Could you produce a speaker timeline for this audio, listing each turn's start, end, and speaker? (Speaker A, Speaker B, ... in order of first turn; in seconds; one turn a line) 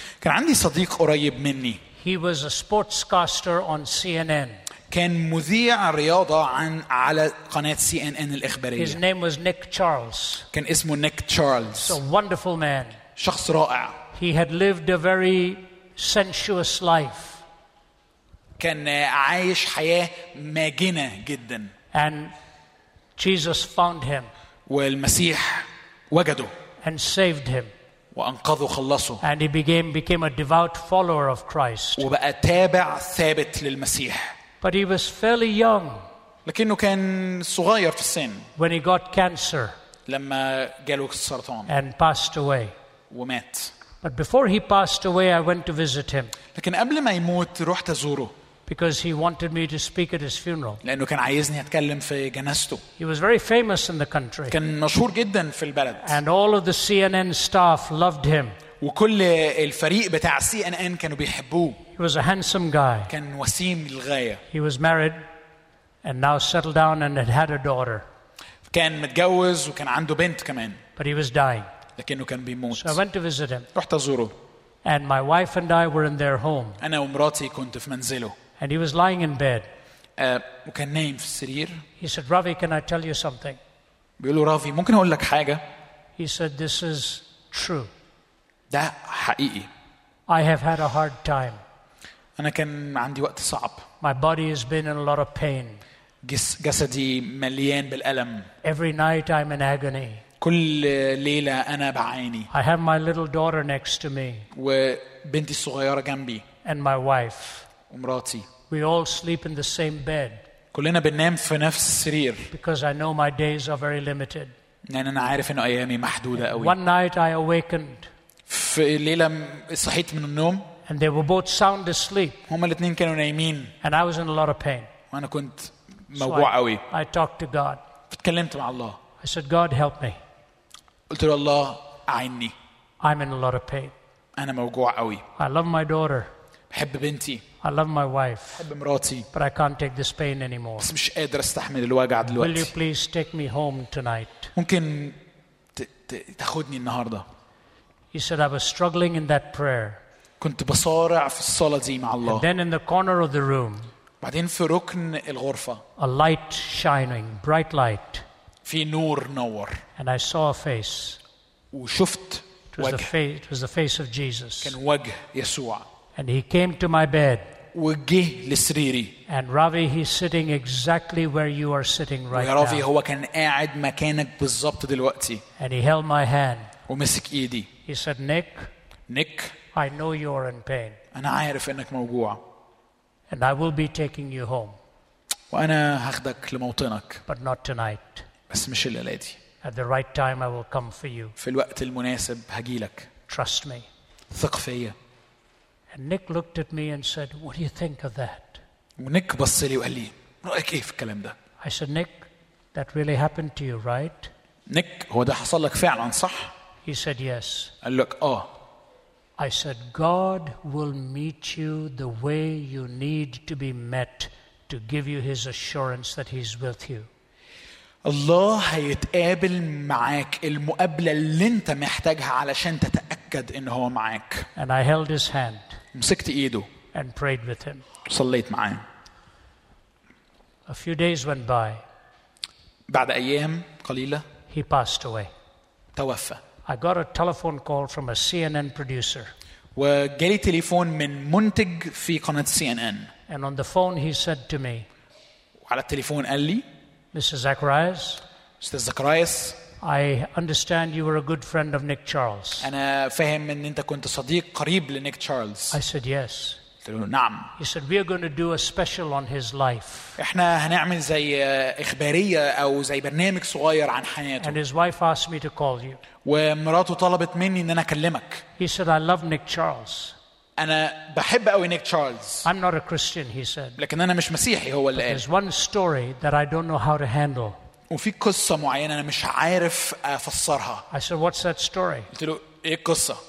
Speaker A: 0.2-1.8
Speaker B: 2.0-4.6
Speaker A: 4.9-9.0
Speaker B: 8.8-10.5
Speaker A: 10.5-12.0
Speaker B: 11.8-13.0
Speaker A: 13.2-14.0
Speaker B: 14.1-17.4
Speaker A: 18.6-21.7
Speaker B: 21.9-22.3
Speaker B: 23.2-24.3
Speaker A: 24.7-26.5
Speaker B: 26.8-27.7
Speaker A: 28.1-29.2
Speaker B: 29.2-32.1
Speaker A: 32.0-34.3
Speaker B: 34.6-36.1
Speaker A: 36.5-38.5
Speaker B: 38.6-39.8
Speaker A: 40.1-41.7
Speaker B: 41.7-42.7
Speaker A: 43.1-43.7
Speaker B: 44.0-46.4
Speaker A: 46.5-48.3
Speaker B: 48.7-50.8
Speaker A: 50.8-52.8
Speaker B: 53.0-54.6
Speaker A: 54.5-56.2
Speaker B: 56.0-58.6
Speaker A: 58.8-61.8
Speaker B: 62.0-63.1
Speaker A: 63.1-64.4
Speaker B: 64.5-65.2
Speaker B: 66.0-68.1
Speaker A: 68.7-70.8
Speaker B: 71.0-71.7
Speaker A: 72.0-73.0
Speaker B: 72.7-73.7
Speaker A: 73.8-74.3
Speaker B: 74.8-76.8
Speaker A: 76.8-78.3
Speaker B: 78.6-79.7
Speaker A: 80.2-81.8
Speaker B: 82.0-83.6
Speaker A: 84.2-85.6
Speaker B: 86.2-87.9
Speaker A: 88.7-89.7
Speaker B: 90.3-91.6
Speaker A: 92.4-93.9
Speaker B: 94.0-95.8
Speaker A: 96.2-98.5
Speaker B: 98.6-100.2
Speaker A: 100.4-102.5
Speaker B: 102.5-104.5
Speaker A: 104.5-106.4
Speaker B: 106.6-107.7
Speaker A: 107.9-108.5
Speaker B: 108.7-110.4
Speaker A: 110.7-112.5
Speaker B: 112.5-114.5
Speaker A: 114.9-116.8
Speaker B: 116.4-118.1
Speaker A: 118.5-120.7
Speaker B: 120.9-122.4
Speaker A: 122.5-123.7
Speaker B: 123.8-124.9
Speaker A: 125.1-126.8
Speaker B: 126.1-127.8
Speaker A: 128.1-129.0
Speaker B: 129.2-130.2
Speaker A: 131.1-132.5
Speaker B: 133.0-133.9
Speaker A: 134.4-135.2
Speaker B: 135.4-136.3
Speaker A: 136.7-137.4
Speaker B: 137.6-138.7
Speaker A: 138.6-139.3
Speaker B: 139.3-140.9
Speaker A: 140.8-142.7
Speaker B: 142.3-144.5
Speaker A: 144.6-145.2
Speaker A: 145.8-147.2
Speaker B: 148.1-150.0
Speaker A: 150.4-152.4
Speaker B: 152.2-153.9
Speaker A: 154.2-155.8
Speaker B: 156.0-158.2
Speaker A: 158.7-159.8
Speaker B: 160.0-161.2
Speaker A: 161.7-163.1
Speaker B: 162.7-164.8
Speaker A: 164.6-165.9
Speaker B: 166.2-167.4
Speaker A: 167.7-169.2
Speaker B: 169.3-172.8
Speaker A: 172.3-175.4
Speaker B: 175.6-176.7
Speaker A: 176.9-177.7
Speaker B: 177.9-178.7
Speaker A: 179.1-179.6
Speaker B: 179.7-181.0
Speaker A: 181.1-182.4
Speaker B: 183.3-184.8
Speaker A: 185.5-187.2
Speaker B: 187.3-188.3
Speaker A: 188.5-189.4
Speaker B: 189.6-191.3
Speaker A: 191.4-193.1
Speaker B: 193.3-193.9
Speaker A: 194.3-194.9
Speaker B: 195.9-198.6
Speaker A: 199.0-201.3
Speaker B: 201.6-204.3
Speaker A: 204.7-206.5
Speaker B: 206.8-207.7
Speaker A: 207.8-208.5
Speaker B: 209.4-217.1
Speaker A: 218.0-224.5
Speaker B: 224.6-225.8
Speaker A: 225.9-226.7
Speaker B: 226.9-227.8
Speaker A: 228.1-228.8
Speaker B: 230.7-231.8
Speaker A: 232.9-234.3
Speaker B: 234.5-235.3
Speaker A: 236.0-236.4
Speaker B: 236.7-239.3
Speaker A: 239.8-243.1
Speaker B: 243.3-244.9
Speaker A: 245.7-246.7
Speaker B: 247.1-248.2
Speaker A: 248.6-249.6
Speaker B: 249.8-252.7
Speaker A: 252.6-255.8
Speaker B: 255.7-256.6
Speaker A: 256.8-257.5
Speaker B: 257.6-260.2
Speaker A: 260.2-264.6
Speaker B: 264.4-266.0
Speaker A: 266.2-268.4
Speaker B: 268.6-270.1
Speaker A: 270.6-272.5
Speaker B: 272.4-273.8
Speaker A: 273.8-275.2
Speaker B: 274.9-277.6
Speaker A: 277.9-280.9
Speaker B: 280.9-282.1
Speaker A: 282.1-283.2